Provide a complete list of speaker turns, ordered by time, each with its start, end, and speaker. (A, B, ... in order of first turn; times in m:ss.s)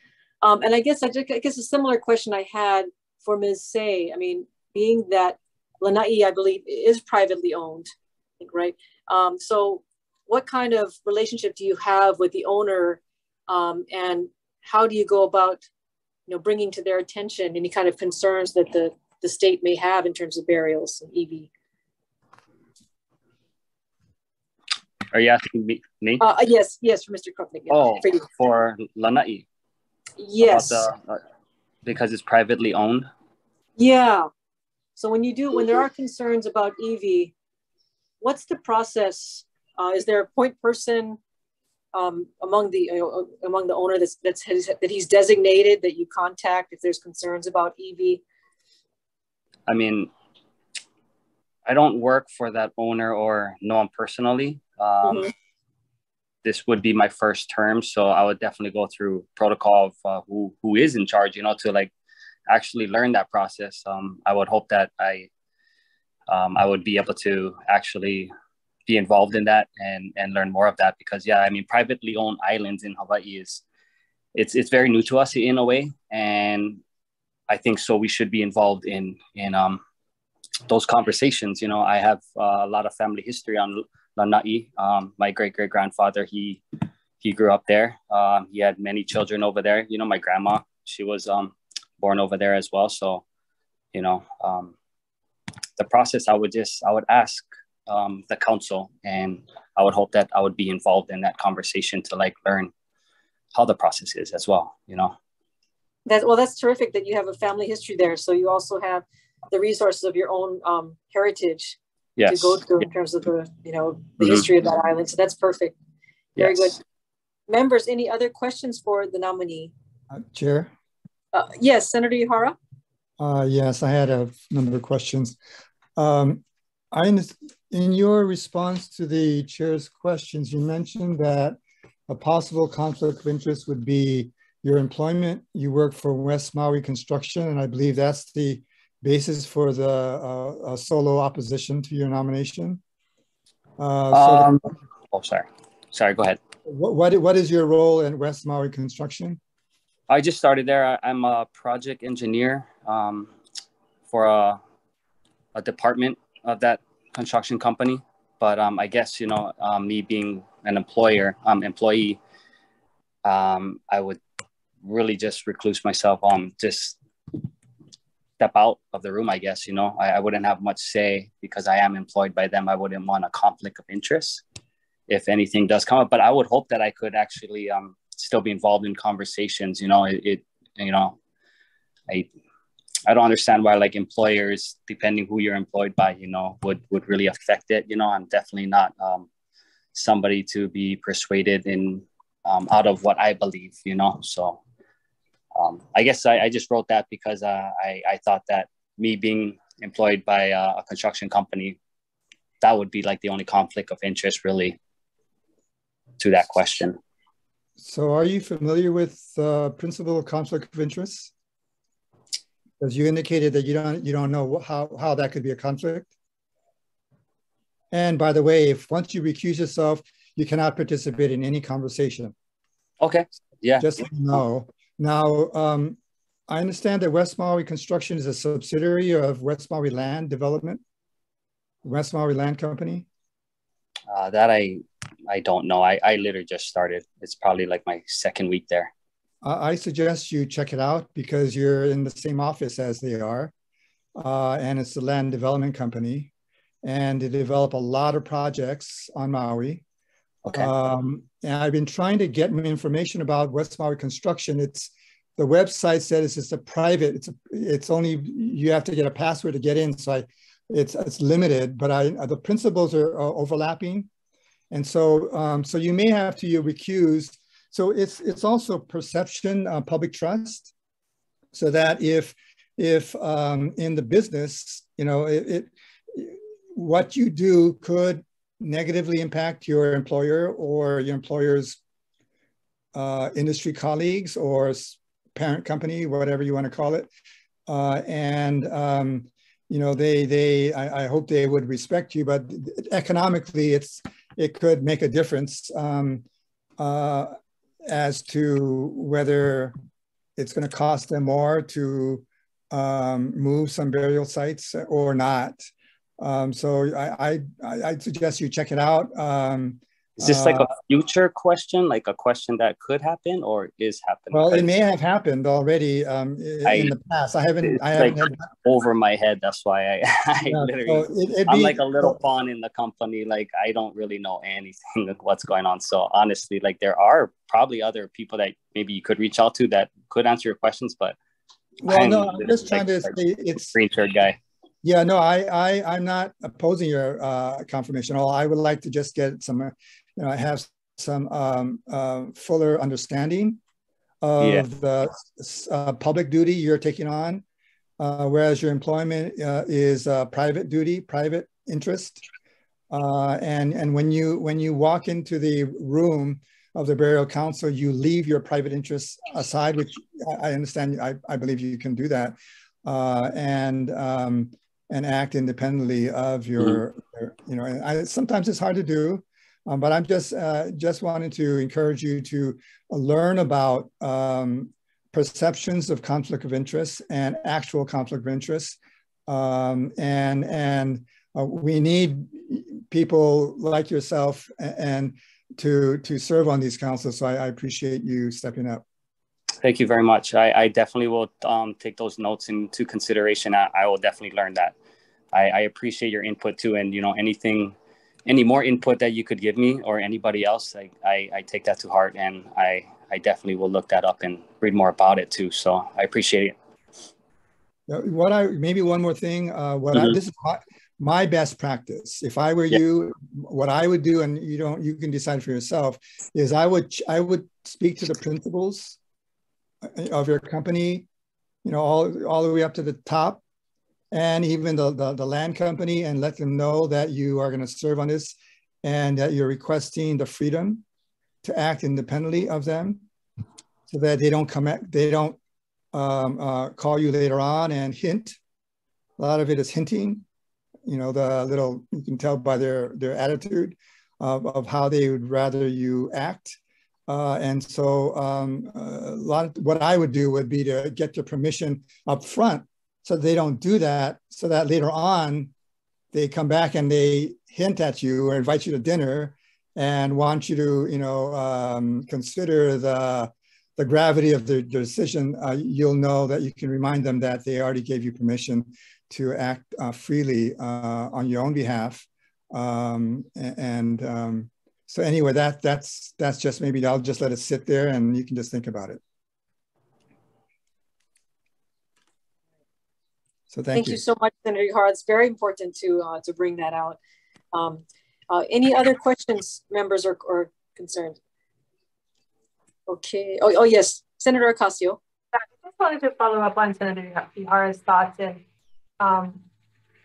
0:00.4-0:07.9 A
0:08.4-0:15.6 A
0:16.3-0:21.5 A
0:25.1-0:26.2 B
0:26.2-0:28.3 A
0:27.7-0:29.4 B
0:30.2-0:30.9 A
0:30.4-0:31.2 B
0:31.8-0:33.1 B
0:33.8-0:34.3 A
0:35.0-0:37.3 A
0:38.2-0:41.2 A
0:41.9-0:48.2 A
0:49.7-0:50.1 B
0:51.6-0:55.3 B
0:55.0-0:55.3 A
0:56.4-1:01.9 B
1:02.5-1:05.3 B
1:06.3-1:08.3 B
1:08.9-1:13.6 B
1:14.3-1:16.8 B
1:17.5-1:19.8 B
1:20.7-1:26.6 B
1:27.2-1:33.2 B
1:33.9-1:34.7 B
1:35.8-1:42.7 B
1:43.5-1:45.2 B
1:46.0-1:55.8 A
1:52.2-1:52.6 B
1:54.2-1:54.5 B
1:56.4-1:56.8 B
1:56.4-1:56.8 A
1:57.5-1:59.7 A
2:00.1-2:00.7 C
2:01.3-2:02.6 A
2:03.2-2:05.4 C
2:06.0-2:11.6 C
2:12.1-2:22.8 C
2:23.8-2:24.7 C
2:24.1-2:26.4 B
2:26.7-2:29.4 C
2:30.1-2:33.3 B
2:34.1-2:34.6 B
2:35.5-2:42.2 B
2:43.2-2:44.2 B
2:44.8-2:47.0 B
2:48.4-2:54.4 B
2:55.1-3:01.2 B
3:03.1-3:09.3 B
3:09.9-3:14.6 B
3:15.5-3:21.8 B
3:22.6-3:24.8 B
3:26.2-3:27.0 B
3:27.8-3:31.3 C
3:32.8-3:36.1 C
3:37.9-3:42.3 C
3:43.0-3:44.4 B
3:43.8-3:46.0 C
3:46.5-3:50.8 C
3:51.8-3:53.0 C
3:54.1-3:58.9 B
3:59.4-4:03.5 C
4:04.2-4:06.3 C
4:06.8-4:09.8 C
4:10.4-4:10.7 B
4:10.4-4:24.1 C
4:24.7-4:30.7 C
4:31.5-4:41.8 C
4:42.9-4:47.1 C
4:47.7-4:56.2 C
4:56.8-4:57.3 C
4:57.9-4:59.7 C
5:00.4-5:05.6 C
5:06.2-5:10.7 C
5:10.2-5:14.7 B
5:14.3-5:18.5 C
5:16.6-5:16.9 B
5:17.6-5:31.2 B
5:20.5-5:22.2 C
5:31.8-5:33.8 C
5:31.8-5:34.4 B
5:34.8-5:43.6 C
5:44.2-5:47.4 C
5:44.4-5:44.6 B
5:48.0-5:52.2 C
5:52.9-6:28.8 C
6:29.6-6:34.7 B
6:35.3-6:46.5 B
6:47.9-6:59.0 C
6:59.9-7:01.0 C
7:01.6-7:03.4 C
7:04.1-7:10.8 C
7:11.4-7:13.0 C
7:13.9-7:15.4 C
7:15.9-7:18.4 C
7:19.2-7:20.2 C
7:20.8-7:26.6 C
7:27.1-7:35.5 C
7:36.1-7:59.0 C
8:03.5-8:04.0 C
8:03.7-8:07.0 A
8:07.5-8:11.2 A
8:12.9-8:15.0 A
8:15.3-8:18.4 D
8:19.0-8:19.4 D